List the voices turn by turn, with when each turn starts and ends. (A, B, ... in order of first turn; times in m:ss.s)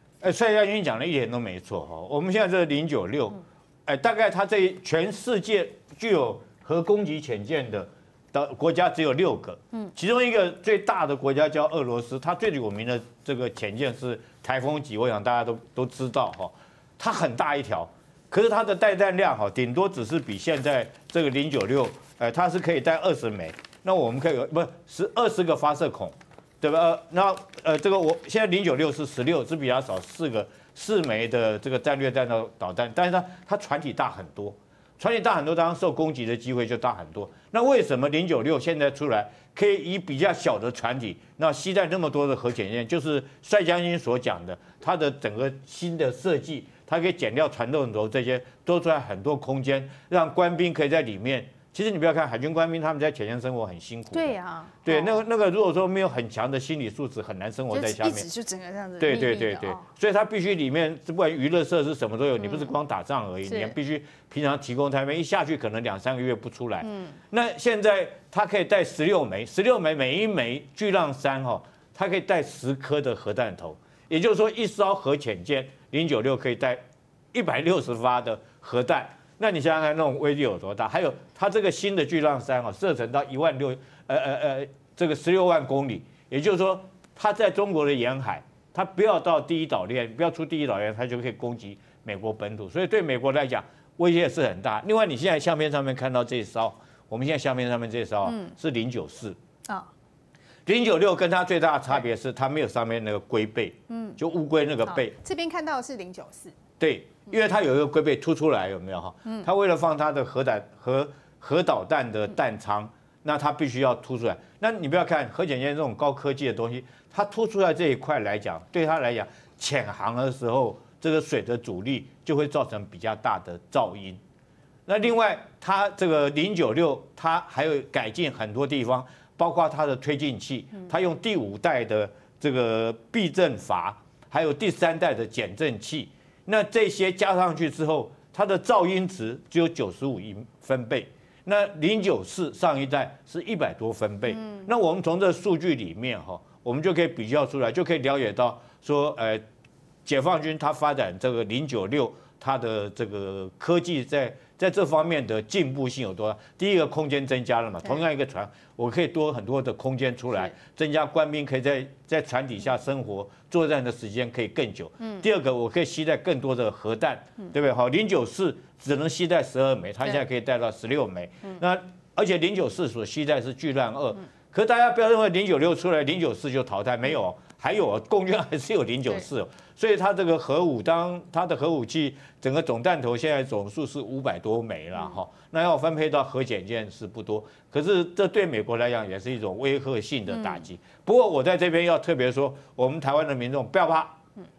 0:00.2-0:58.3 A
0:54.1-0:55.2 B
0:57.7-0:59.8 B
0:59.0-1:16.8 A
1:02.4-1:02.7 B
1:03.4-1:03.7 B
1:06.8-1:07.1 B
1:17.3-1:39.4 A
1:38.2-1:38.5 B
1:40.6-1:45.1 A
1:43.9-1:44.2 B
1:44.8-1:46.6 B
1:46.8-2:04.2 A
2:04.9-2:29.4 A
2:30.0-3:14.2 A
3:10.3-3:10.6 B